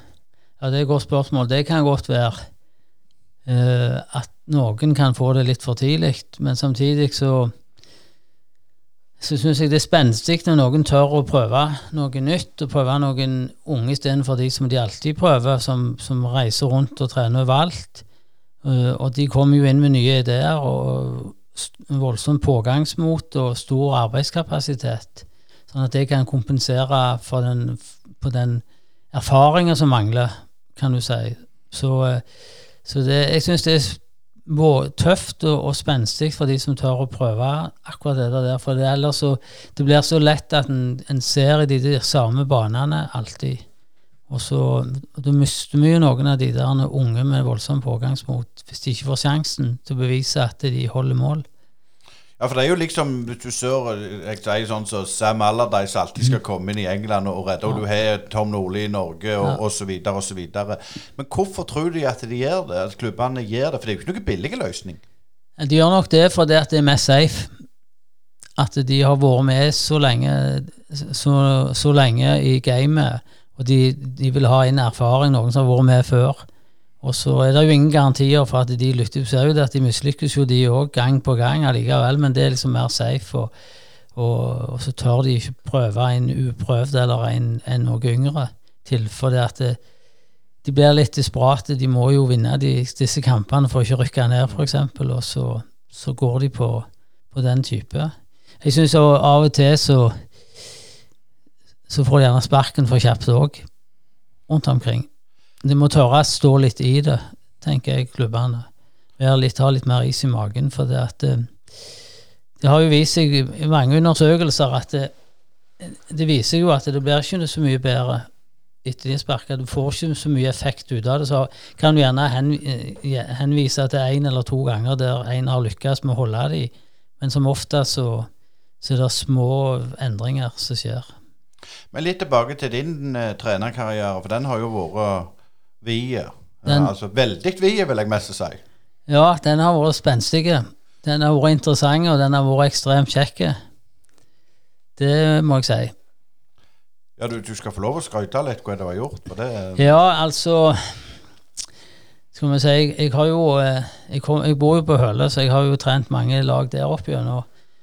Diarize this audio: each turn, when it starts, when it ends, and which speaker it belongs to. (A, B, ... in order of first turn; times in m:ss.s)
0:00.6-0:02.5 A
0:03.5-0:07.5 A
0:09.2-0:18.0 A
0:18.6-0:32.2 A
0:32.8-0:43.6 A
0:44.3-0:51.4 A
0:52.4-1:05.0 B
1:05.6-1:07.5 A
1:08.6-1:16.4 A
1:17.0-1:23.5 A
1:24.1-1:29.8 A
1:30.6-1:40.2 A
1:41.9-1:43.7 A
1:44.5-1:45.1 A
1:45.6-1:48.7 A
1:49.2-1:51.5 A
1:52.6-1:55.1 A
1:55.8-1:58.3 A
1:58.8-2:08.3 A
2:08.8-2:11.1 A
2:11.9-2:18.6 B
2:16.6-2:16.9 A
2:19.1-2:23.6 A
2:25.0-2:25.9 A
2:27.2-2:30.0 B
2:29.8-2:31.1 A
2:32.3-2:37.5 A